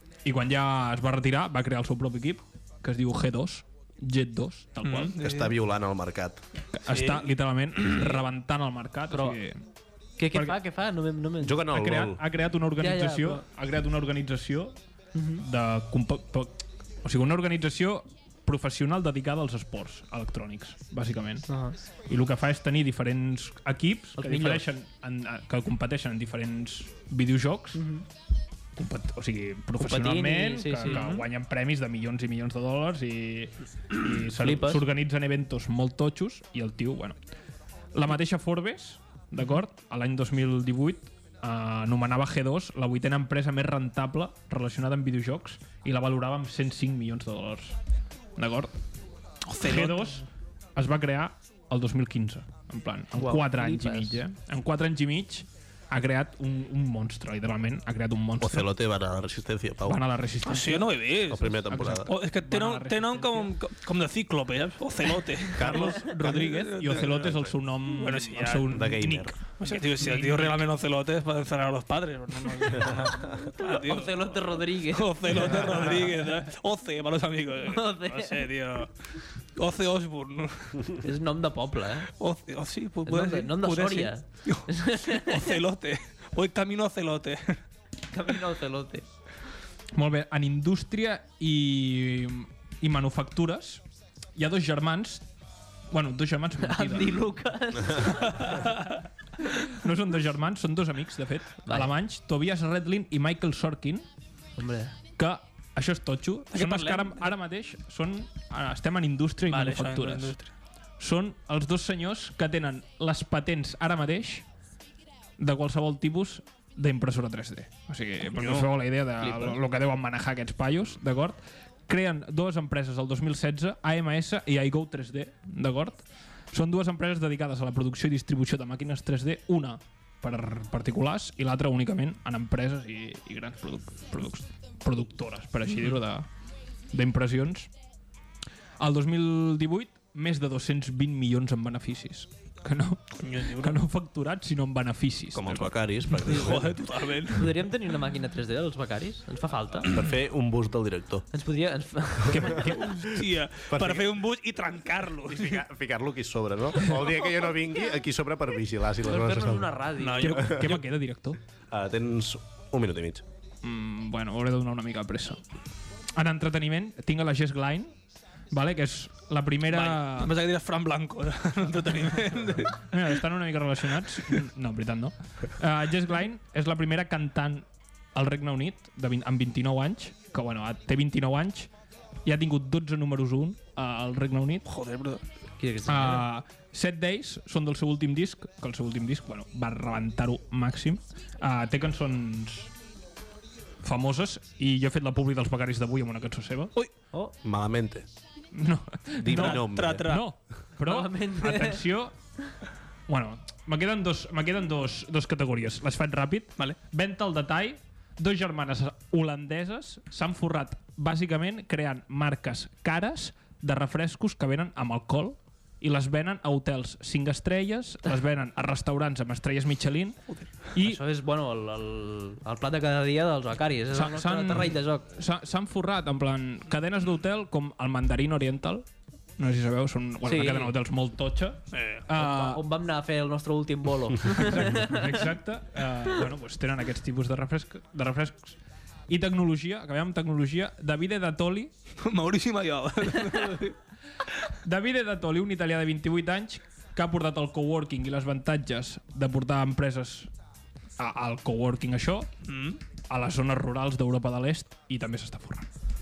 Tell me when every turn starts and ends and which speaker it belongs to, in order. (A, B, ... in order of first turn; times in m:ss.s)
0:00.2-0:05.2 A
0:04.8-0:05.5 B
0:05.2-0:06.4 C
0:06.7-0:09.6 A
0:06.9-0:08.2 B
0:09.1-0:09.4 D
0:10.2-0:11.7 D
0:10.3-0:10.6 A
0:11.4-0:12.2 C
0:11.7-0:14.8 A
0:12.8-0:13.4 D
0:15.1-0:15.4 D
0:15.4-0:21.5 A
0:21.5-0:21.8 D
0:22.1-0:27.8 A
0:24.2-0:24.6 D
0:27.7-0:28.0 D
0:28.8-0:37.2 A
0:29.8-0:31.2 D
0:34.4-0:34.8 D
0:37.9-0:47.7 A
0:48.4-0:48.7 A
0:49.5-0:50.2 B
0:49.6-0:58.7 A
0:53.2-0:54.2 D
0:58.4-1:00.0 C
0:59.8-1:00.9 A
1:00.4-1:09.0 B
1:01.3-1:02.1 C
1:01.7-1:03.5 A
1:05.5-1:07.5 C
1:05.6-1:10.6 A
1:08.6-1:09.4 C
1:09.6-1:18.9 B
1:13.6-1:15.6 D
1:17.7-1:18.5 D
1:19.6-1:20.9 B
1:21.0-1:22.1 D
1:22.2-1:27.6 B
1:23.0-1:25.6 D
1:28.1-1:29.0 D
1:29.9-1:33.8 A
1:34.4-1:35.2 A
1:35.9-1:37.3 A
1:36.6-1:38.7 D
1:39.7-1:44.0 A
1:41.6-1:41.9 D
1:44.6-1:45.0 D
1:45.2-1:50.4 A
1:46.5-1:47.2 B
1:49.5-1:50.5 B
1:51.0-1:54.4 A
1:55.4-2:16.2 A
1:58.4-1:58.7 B
1:59.2-1:59.6 D
2:16.9-2:17.7 A
2:18.8-2:25.7 A
2:23.2-2:23.8 B
2:25.3-2:26.7 C
2:26.2-2:27.5 B
2:27.3-2:30.0 D
2:29.8-2:31.2 C
2:31.3-2:32.8 D
2:32.3-2:32.6 C
2:32.4-2:35.6 B
2:33.7-2:34.1 C
2:35.2-2:39.7 C
2:39.0-2:40.4 D
2:40.0-2:40.8 B
2:40.2-2:41.4 A
2:40.3-2:40.7 C
2:41.7-2:43.2 C
2:43.6-2:45.4 A
2:46.1-2:47.9 A
2:48.5-2:50.3 A
2:49.7-2:52.8 B
2:52.8-3:01.7 A
3:02.2-3:04.6 A
3:04.6-3:05.2 B
3:05.6-3:06.2 D
3:05.8-3:12.7 A
3:13.8-3:16.7 A
3:17.4-3:18.0 C
3:18.5-3:22.1 A
3:19.2-3:20.2 C
3:19.2-3:20.3 B
3:20.8-3:21.8 D
3:23.1-3:40.2 A
3:40.7-3:41.0 A
3:40.8-3:45.0 D
3:43.9-3:48.8 A
3:49.4-3:52.6 A
3:50.2-3:50.7 D
3:51.7-3:52.0 B
3:52.1-3:55.0 D
3:54.2-3:58.6 A
3:59.1-4:01.7 A
4:02.0-4:03.8 B
4:04.6-4:10.3 A
4:11.0-4:12.3 A
4:12.4-4:12.8 B
4:13.0-4:15.7 A